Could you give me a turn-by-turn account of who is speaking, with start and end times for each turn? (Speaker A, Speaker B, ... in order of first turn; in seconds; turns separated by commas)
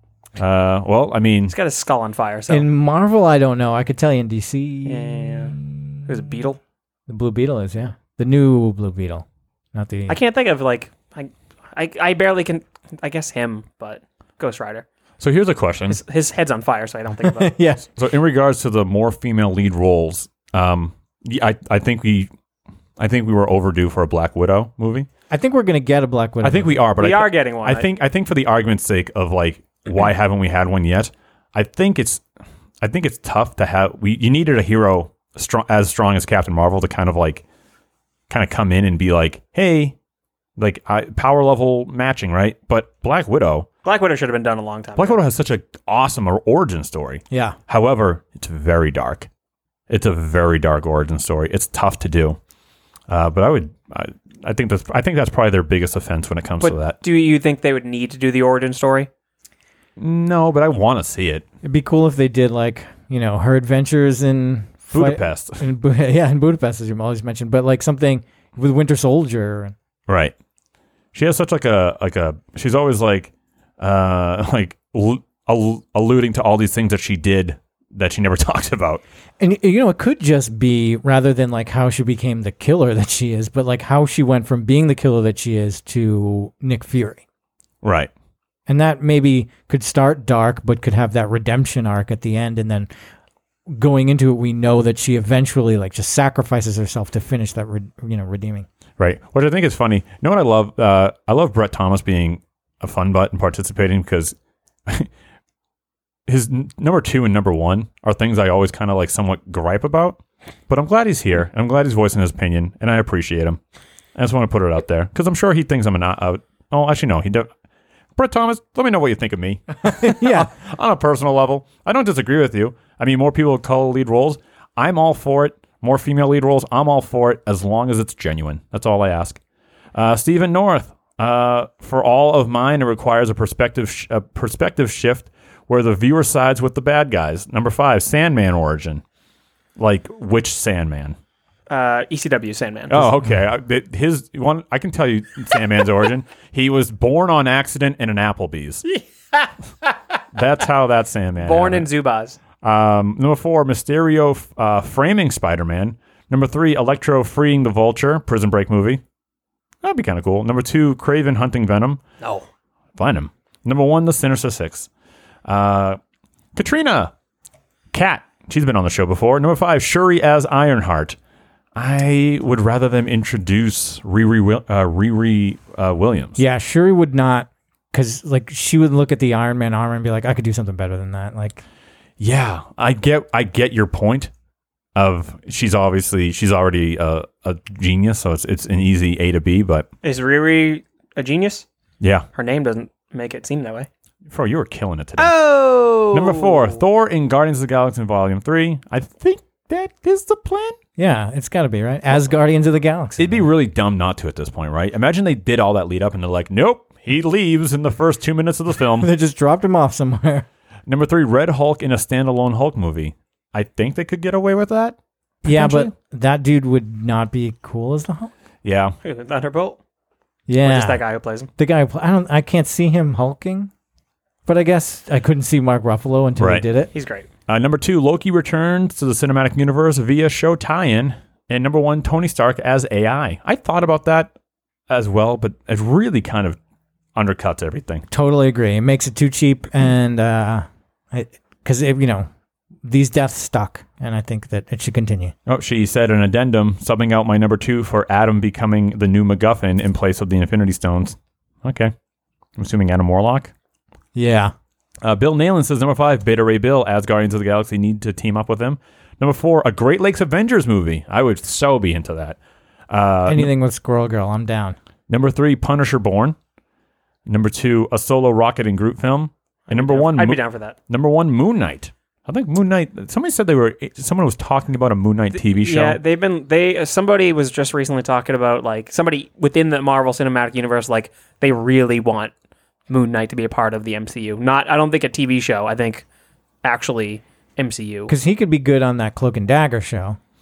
Speaker A: 0.4-1.5, Speaker B: 1.5-2.7, Speaker C: 2.5-6.2, Speaker B: 4.8-6.6, Speaker C: 7.1-10.2, Speaker B: 10.1-14.9, Speaker A: 15.2-16.0, Speaker B: 15.9-17.5, Speaker C: 17.2-17.9, Speaker A: 18.0-22.3, Speaker A: 23.0-25.1, Speaker C: 25.3-26.8, Speaker A: 26.4-32.2, Speaker B: 27.0-27.9, Speaker A: 32.8-37.4, Speaker A: 38.3-40.0, Speaker A: 40.6-43.7, Speaker B: 43.9-45.2, Speaker A: 45.0-49.3, Speaker C: 47.3-47.6, Speaker A: 49.9-52.4, Speaker A: 53.1-57.0, Speaker B: 56.6-59.1, Speaker A: 60.0-61.5, Speaker C: 61.6-69.8, Speaker A: 64.9-65.7, Speaker A: 70.1-70.3, Speaker A: 71.1-79.0, Speaker C: 79.4-87.2, Speaker A: 87.8-88.1, Speaker C: 88.7-92.9, Speaker C: 93.7-98.7, Speaker A: 99.0-104.4, Speaker A: 106.3-113.6, Speaker A: 114.2-117.5, Speaker A: 118.2-129.4, Speaker C: 120.0-120.5, Speaker A: 129.9-139.0, Speaker A: 139.8-141.2, Speaker B: 141.7-143.1, Speaker A: 142.9-148.8, Speaker A: 150.3-151.9, Speaker B: 151.4-152.4, Speaker A: 152.6-159.0, Speaker A: 159.8-162.0, Speaker B: 162.2-162.5, Speaker A: 163.0-164.9, Speaker A: 165.5-166.0, Speaker A: 166.6-167.1, Speaker A: 167.9-171.2, Speaker A: 171.8-176.4, Speaker C: 176.4-181.6, Speaker A: 182.2-184.3, Speaker A: 185.0-189.9, Speaker B: 190.0-191.7, Speaker A: 192.0-192.3, Speaker B: 192.3-193.9, Speaker A: 194.3-200.8, Speaker B: 195.2-196.8, Speaker C: 201.0-203.5, Speaker A: 203.2-209.1, Speaker C: 208.9-210.5, Speaker A: 210.9-215.9, Speaker C: 215.4-218.3, Speaker A: 218.6-219.0, Speaker B: 219.0-219.8, Speaker C: 220.5-221.0, Speaker B: 220.6-221.5, Speaker C: 221.6-223.7, Speaker C: 224.4-226.9, Speaker A: 226.4-226.7, Speaker B: 226.9-227.3, Speaker A: 227.5-234.3, Speaker A: 234.9-236.6, Speaker A: 237.2-238.0, Speaker C: 238.1-242.3, Speaker C: 242.8-245.3, Speaker A: 245.5-251.9, Speaker A: 252.6-253.5, Speaker C: 254.2-254.5, Speaker A: 255.0-262.4, Speaker A: 262.9-263.5, Speaker C: 263.3-264.8, Speaker A: 265.1-266.4, Speaker A: 267.3-276.0, Speaker B: 269.7-270.8, Speaker B: 275.3-282.3, Speaker B: 282.9-286.1, Speaker B: 286.6-288.1, Speaker C: 288.1-290.2